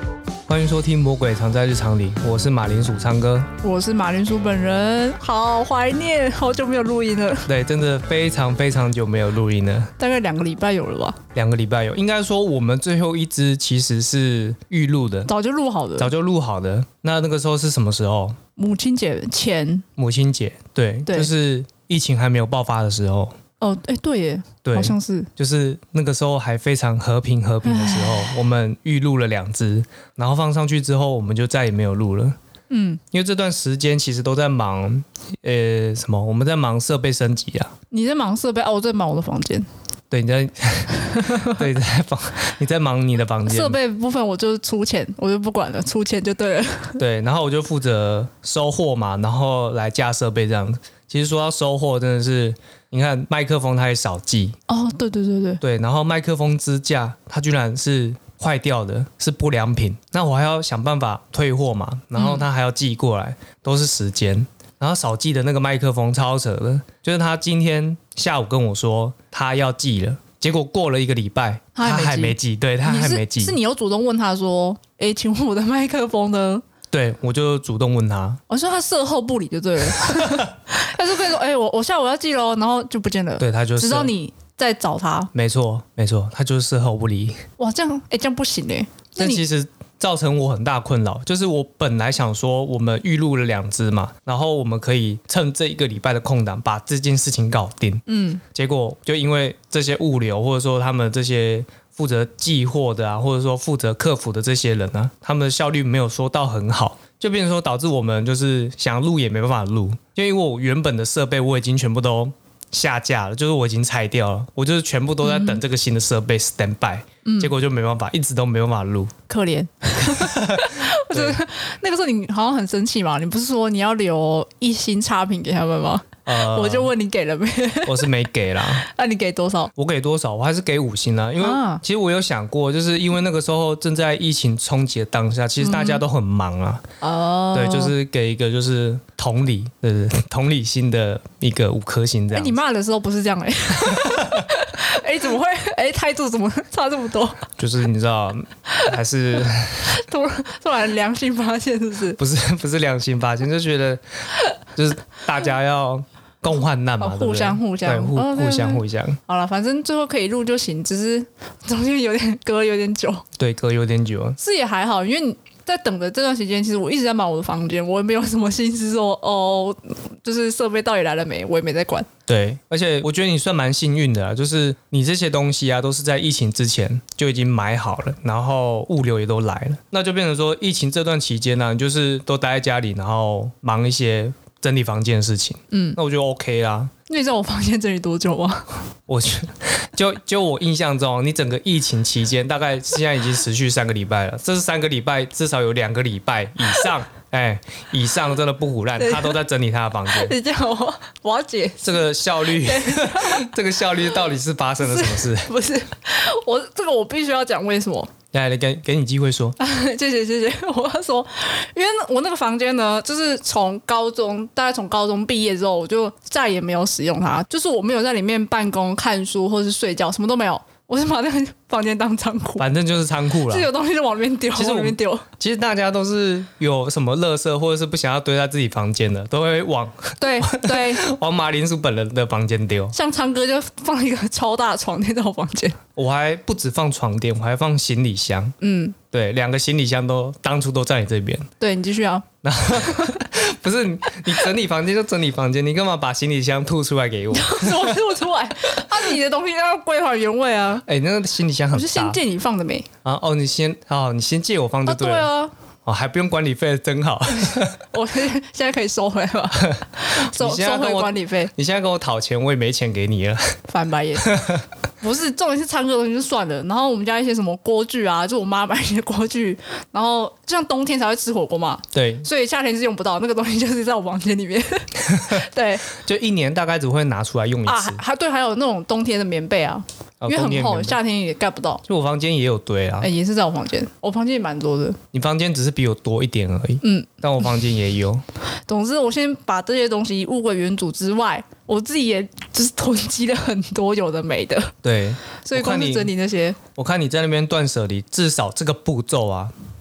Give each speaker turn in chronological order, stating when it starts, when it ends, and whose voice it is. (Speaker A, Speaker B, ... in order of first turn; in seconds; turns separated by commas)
Speaker A: 0.5-3.5, Speaker B: 3.6-7.5, Speaker A: 7.5-9.9, Speaker B: 10.0-11.2, Speaker A: 11.3-15.3, Speaker B: 15.2-16.1, Speaker A: 16.0-18.4, Speaker B: 18.6-19.8, Speaker A: 20.0-23.3, Speaker B: 23.6-25.3, Speaker A: 24.6-32.4, Speaker B: 27.6-28.4, Speaker B: 32.7-33.0, Speaker A: 33.1-37.7, Speaker B: 37.9-39.7, Speaker A: 40.1-43.8, Speaker B: 41.1-41.6, Speaker B: 43.5-47.0, Speaker A: 47.0-54.5, Speaker B: 54.7-55.6, Speaker A: 55.6-73.6, Speaker B: 62.2-62.5, Speaker B: 71.7-76.6, Speaker A: 76.9-78.4, Speaker B: 78.5-85.3, Speaker A: 80.0-80.5, Speaker A: 83.4-84.1, Speaker A: 85.3-87.4, Speaker B: 87.6-89.4, Speaker A: 89.2-98.0, Speaker B: 98.1-98.4, Speaker A: 98.5-119.1, Speaker B: 115.2-115.6, Speaker B: 117.2-117.5, Speaker B: 119.3-128.1, Speaker A: 120.0-121.4, Speaker A: 126.2-126.9, Speaker A: 127.8-128.8, Speaker B: 128.7-129.7, Speaker A: 129.8-136.8, Speaker B: 131.4-131.8, Speaker B: 135.6-136.0, Speaker B: 137.0-137.9, Speaker A: 137.5-142.6, Speaker B: 142.3-147.4, Speaker A: 143.8-144.5, Speaker A: 147.6-150.0, Speaker B: 149.8-152.2, Speaker A: 152.2-154.0, Speaker A: 154.8-159.2, Speaker B: 157.0-163.2, Speaker A: 163.4-164.4, Speaker B: 164.4-172.1, Speaker A: 172.3-186.9, Speaker B: 185.7-186.0, Speaker B: 187.1-188.8, Speaker A: 189.1-200.3, Speaker B: 199.0-199.4, Speaker B: 200.1-203.5, Speaker A: 201.8-205.5, Speaker B: 204.8-208.1, Speaker A: 208.3-209.6, Speaker B: 209.6-222.7, Speaker A: 222.6-223.7, Speaker B: 223.5-225.3, Speaker A: 224.5-232.9, Speaker B: 230.2-231.0, Speaker B: 232.9-235.8, Speaker A: 236.0-238.6, Speaker B: 238.6-239.0, Speaker A: 239.1-241.5, Speaker B: 241.6-243.2, Speaker A: 242.4-248.2, Speaker B: 247.3-250.8, Speaker A: 250.8-252.2, Speaker B: 251.7-252.9, Speaker A: 253.0-255.3, Speaker B: 254.8-255.5, Speaker A: 255.8-257.8, Speaker B: 257.4-261.5, Speaker A: 259.6-263.6, Speaker B: 263.7-264.4, Speaker A: 264.2-264.6, Speaker B: 265.0-275.9, Speaker A: 271.9-272.3, Speaker A: 275.1-278.0, Speaker B: 277.6-281.8, Speaker A: 280.2-281.0, Speaker A: 281.9-283.1, Speaker B: 283.0-285.0, Speaker A: 285.1-288.2, Speaker B: 286.8-287.2, Speaker B: 288.7-294.8, Speaker A: 294.8-296.1, Speaker B: 295.4-296.6, Speaker A: 296.8-299.5